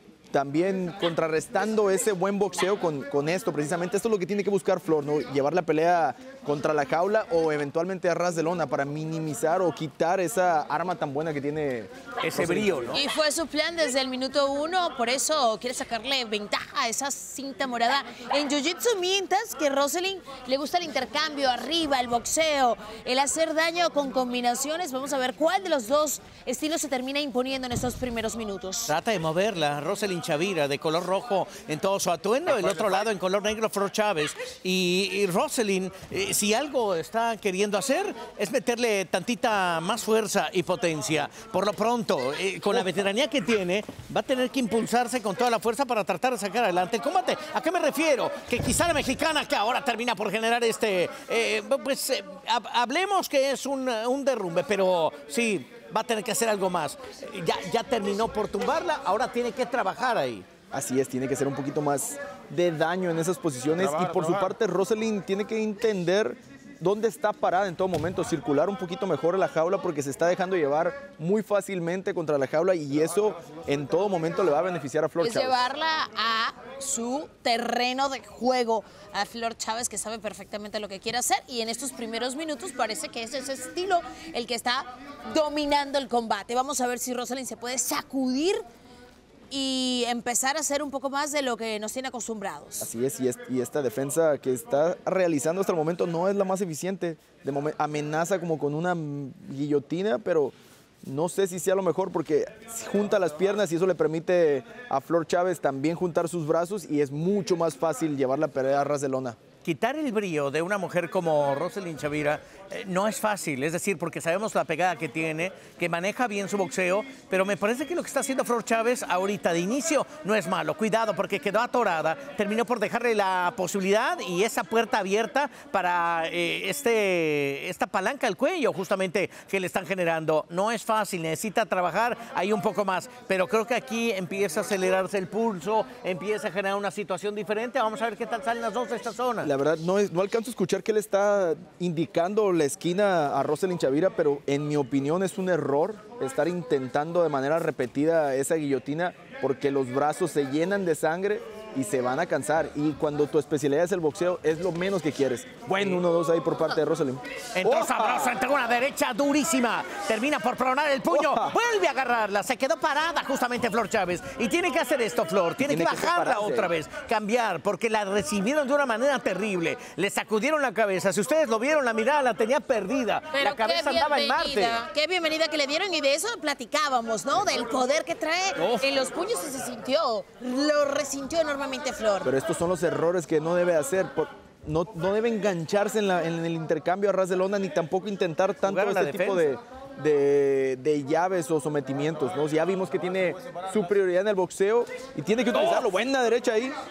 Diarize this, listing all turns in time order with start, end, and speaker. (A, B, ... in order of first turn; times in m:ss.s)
0:00.3-0:12.9 A
0:12.2-0:13.0 B
0:12.9-0:28.9 C
0:28.9-1:00.5 B
1:00.7-1:15.6 A
1:15.2-1:28.6 C
1:29.5-1:32.9 C
1:32.8-1:49.4 A
1:49.6-2:19.5 B
2:19.4-2:38.4 A
2:37.6-2:54.8 B
2:41.1-2:41.6 A
2:45.6-2:46.7 A
2:53.3-3:02.3 C
2:58.6-2:58.9 B
3:02.2-3:16.8 A
3:08.6-3:09.5 B
3:15.5-3:15.8 B